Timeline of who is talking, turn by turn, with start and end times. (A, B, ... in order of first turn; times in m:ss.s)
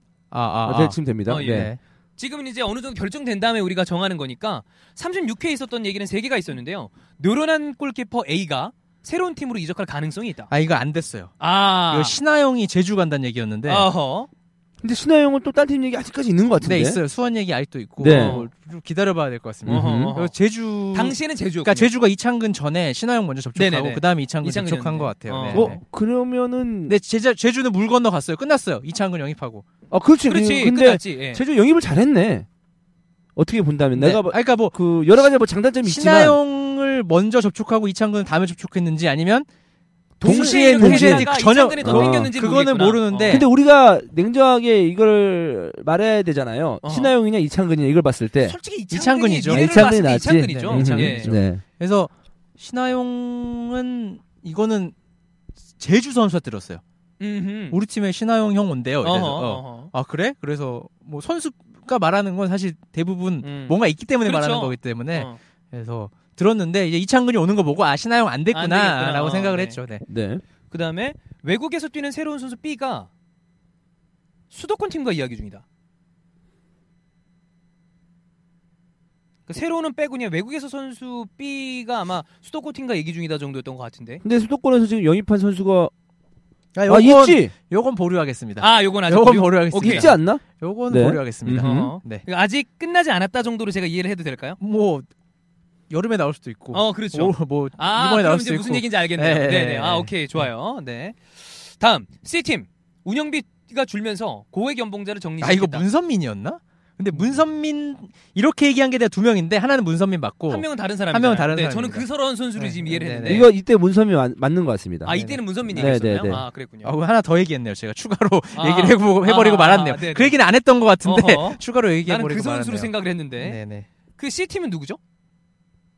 0:00.3-0:01.8 A
0:00.6-0:01.7 B
0:01.3-0:10.5 C
0:10.5-0:11.4 A
0:11.4-0:12.2 C
0:11.9-0:13.9 A
0:13.7-0:14.3 C
0:14.8-0:17.0 B
0:16.6-0:25.8 A
0:18.0-0:18.4 B
0:18.0-0:18.5 C
0:19.7-0:20.1 B
0:19.7-0:20.4 C
0:20.9-0:21.9 C
0:23.6-0:25.7 C
0:25.5-0:27.0 B
0:26.9-0:29.6 A
0:29.9-0:32.5 B
0:30.3-0:31.4 C
0:33.4-0:36.4 B
0:34.0-0:34.8 A
0:35.8-0:39.5 A
0:40.2-0:43.5 C
0:40.2-0:43.5 A
0:40.2-0:42.3 B
0:43.3-0:48.6 B
0:46.8-0:47.1 C
0:48.4-0:51.4 C
0:48.9-0:54.9 A
0:49.5-0:51.6 B
0:55.8-0:56.8 A
0:57.2-0:57.8 C
0:57.7-1:10.0 A
0:59.0-0:59.9 C
1:03.4-1:05.4 C
1:08.5-1:09.8 C
1:10.1-1:10.4 B
1:10.7-1:13.1 C
1:14.5-1:15.6 C
1:19.5-1:24.2 C
1:24.2-1:25.9 B
1:26.8-1:32.2 A
1:26.9-1:27.5 B
1:28.6-1:30.1 C
1:29.8-1:31.9 B
1:31.6-1:34.6 C
1:34.6-1:35.0 A
1:35.9-1:40.4 A
1:36.7-1:45.8 C
1:45.4-1:53.5 A
1:50.5-1:53.5 C
1:53.2-1:55.2 B
1:55.0-1:56.9 C
1:55.1-2:03.9 A
1:55.7-1:56.4 B
1:58.6-2:00.4 C
2:01.0-2:03.6 C
2:04.2-2:05.0 C